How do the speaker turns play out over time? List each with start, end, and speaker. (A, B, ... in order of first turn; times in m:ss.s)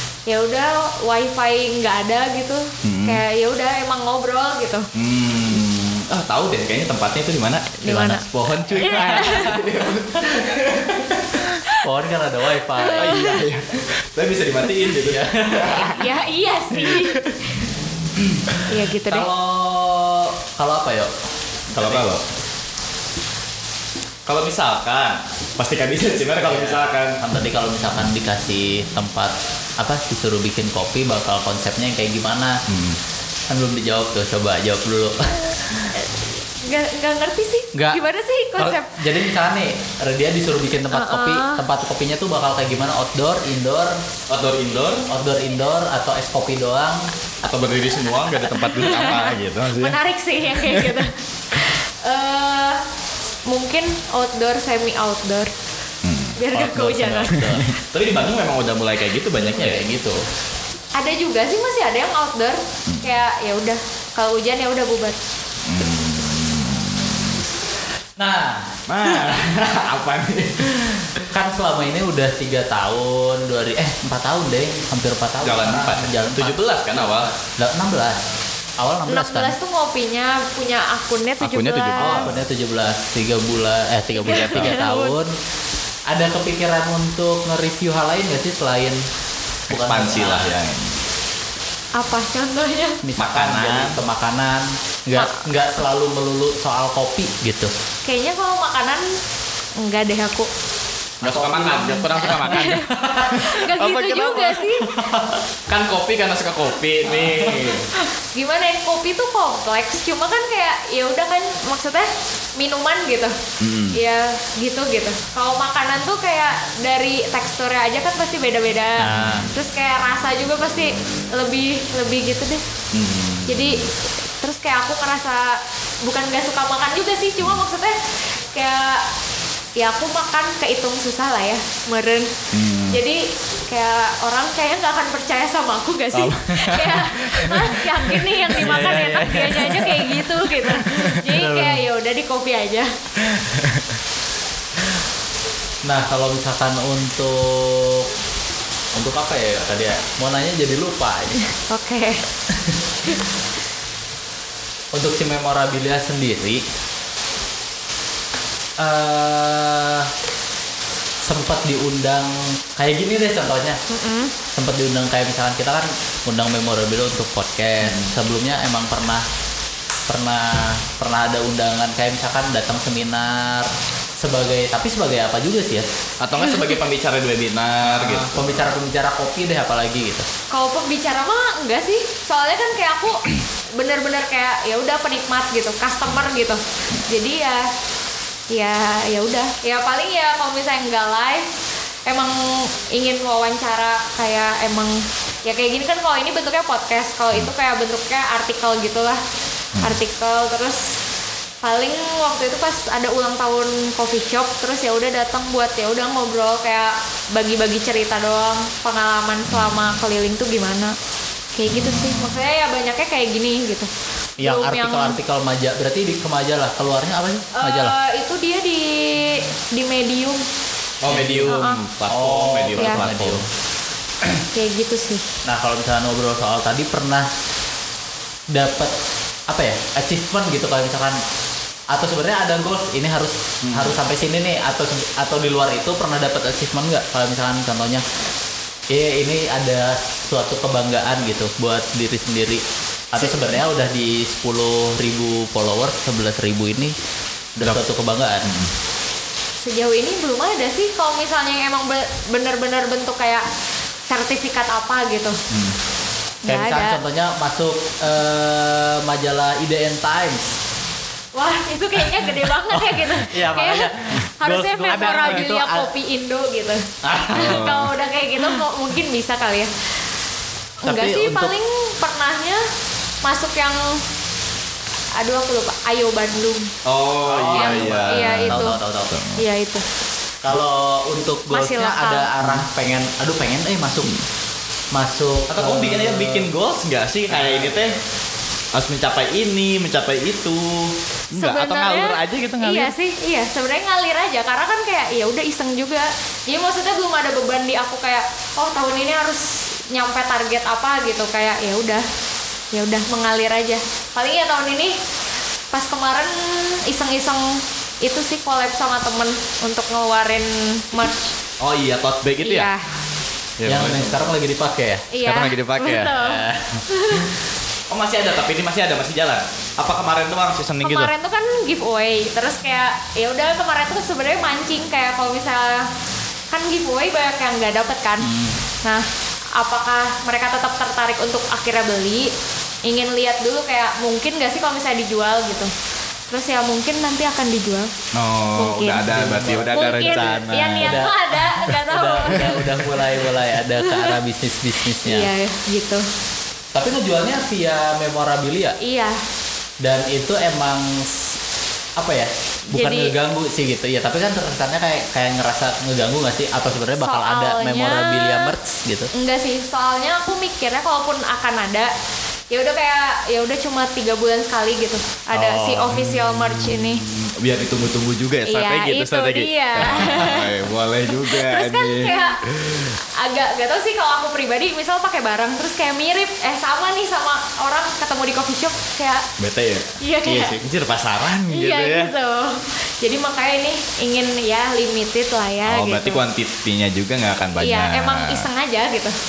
0:00.3-0:04.9 A
0:02.8-0:03.2 B
0:05.0-0:07.8 B
0:07.8-0:08.2 A
0:07.9-0:10.6 C
0:08.4-0:11.5 B
0:08.8-0:09.5 A
0:11.8-0:13.4 C
0:12.8-0:13.4 A
0:12.9-0:16.0 B
0:15.0-0:15.9 C
0:15.6-0:17.6 A
0:16.8-0:17.4 B
0:18.7-0:19.3 A
0:19.1-0:21.1 C
0:21.7-0:22.2 B
0:21.8-0:22.0 C
0:24.3-0:27.2 B
0:26.4-0:32.6 C
0:32.7-0:33.0 B
0:33.5-0:35.9 C
0:35.9-0:39.0 A
0:37.7-0:38.0 C
0:38.6-0:44.0 C
0:40.9-0:41.6 A
0:44.3-0:45.1 B
0:45.1-0:47.1 C
0:47.4-0:50.0 B
0:48.6-0:52.8 A
0:50.5-0:51.0 B
0:53.5-0:55.5 A
0:56.0-0:56.4 B
0:56.4-0:57.8 A
0:56.5-0:57.7 C
0:57.3-0:59.8 B
0:59.5-1:00.2 C
1:01.0-1:05.2 A
1:05.6-1:07.4 B
1:08.2-1:08.8 C
1:08.9-1:11.2 B
1:11.3-1:18.2 C
1:15.4-1:17.3 B
1:18.8-1:19.6 C
1:19.1-1:22.2 A
1:21.4-1:22.4 B
1:22.0-1:25.3 C
1:24.2-1:25.1 A
1:24.3-1:24.8 B
1:26.1-1:29.0 C
1:29.7-1:30.6 C
1:29.7-1:31.0 B
1:32.0-1:33.0 A
1:33.0-1:37.7 C
1:33.2-1:34.0 B
1:35.2-1:35.4 A
1:38.0-1:39.1 A
1:39.8-1:40.5 A
1:41.2-1:43.4 C
1:41.2-1:44.7 B
1:42.4-1:44.9 A
1:44.8-1:45.4 C
1:45.7-1:47.9 B
1:47.1-1:47.8 C
1:48.0-1:53.4 A
1:53.6-1:54.0 B
1:53.9-2:02.6 A
1:59.0-1:59.5 C
1:59.2-1:59.4 B
2:02.9-2:03.9 B
2:03.5-2:03.9 A
2:04.4-2:08.0 A
2:08.5-2:09.0 A
2:09.8-2:12.3 A
2:12.5-2:13.0 B
2:12.9-2:22.9 A
2:16.1-2:19.7 B
2:18.6-2:21.8 C
2:20.7-2:21.1 B
2:23.3-2:23.8 B
2:25.8-2:28.1 C
2:29.0-2:31.4 C
2:31.7-2:32.2 A
2:32.5-2:32.8 C
2:34.9-2:36.6 C
2:38.8-2:40.1 C
2:41.2-2:43.8 C
2:43.9-2:44.3 A
2:44.5-2:49.3 C
2:47.8-2:48.1 B
2:50.1-2:55.9 C
2:56.2-2:58.7 B
2:57.8-3:00.3 C
3:00.5-3:07.7 A
3:08.5-3:11.5 A
3:12.1-3:19.2 A
3:19.8-3:20.9 A
3:21.6-3:31.0 A
3:31.6-3:33.9 A
3:31.8-3:32.2 B
3:34.4-3:38.0 C
3:34.4-3:35.2 A
3:37.5-3:40.4 A
3:41.0-3:43.4 B
3:41.1-3:43.5 C
3:41.5-3:41.8 A
3:44.5-3:45.2 A
3:45.4-3:47.3 C
3:48.5-3:48.9 C
3:49.5-3:51.2 C
3:51.9-3:58.0 C
3:53.6-3:54.0 B
3:58.9-4:07.0 C
4:07.6-4:08.5 C
4:08.4-4:08.7 B
4:09.6-4:13.5 A
4:14.1-4:15.4 A
4:16.4-4:17.0 A
4:16.5-4:20.6 C
4:21.4-4:29.7 A
4:22.0-4:25.9 C
4:27.0-4:27.9 C
4:27.3-4:27.9 B
4:30.8-4:32.6 A
4:30.8-4:31.6 C
4:33.2-4:34.0 A
4:35.2-4:36.7 A
4:36.8-4:39.4 B
4:37.2-4:39.2 C
4:37.5-4:38.8 A
4:39.4-4:39.8 A
4:40.4-4:44.1 C
4:41.5-4:42.3 A
4:44.9-4:46.5 C
4:45.5-4:48.0 B
4:47.3-4:47.9 C
4:48.7-4:52.9 B
4:51.3-5:02.0 A
5:02.7-5:05.0 A
5:05.7-5:11.3 A
5:11.6-5:12.7 B
5:12.4-5:12.8 A
5:13.6-5:14.2 B
5:13.6-5:15.1 C
5:15.1-5:17.3 A
5:15.2-5:16.2 B
5:16.1-5:16.8 C
5:17.9-5:21.1 B
5:20.8-5:25.9 A
5:26.5-5:28.3 A
5:28.2-5:28.6 C
5:29.6-5:32.3 A
5:32.9-5:35.7 A
5:36.3-5:37.9 A
5:38.2-5:41.7 B
5:38.6-5:42.6 A
5:39.1-5:45.3 C
5:42.4-5:43.0 B
5:43.8-5:44.2 A
5:45.0-5:46.0 A
5:46.7-5:48.8 C
5:48.8-5:49.2 A
5:49.8-5:51.4 C
5:52.0-5:59.1 C
5:52.7-5:53.1 A
5:57.0-5:58.5 A
5:59.1-6:01.9 A
6:02.5-6:07.0 A
6:05.4-6:06.0 C
6:07.1-6:13.0 B
6:08.5-6:10.5 A
6:11.1-6:12.4 A
6:13.2-6:19.2 A
6:19.4-6:22.1 B
6:20.0-6:20.6 A
6:21.5-6:26.2 A
6:25.6-6:28.5 B
6:27.6-6:29.1 A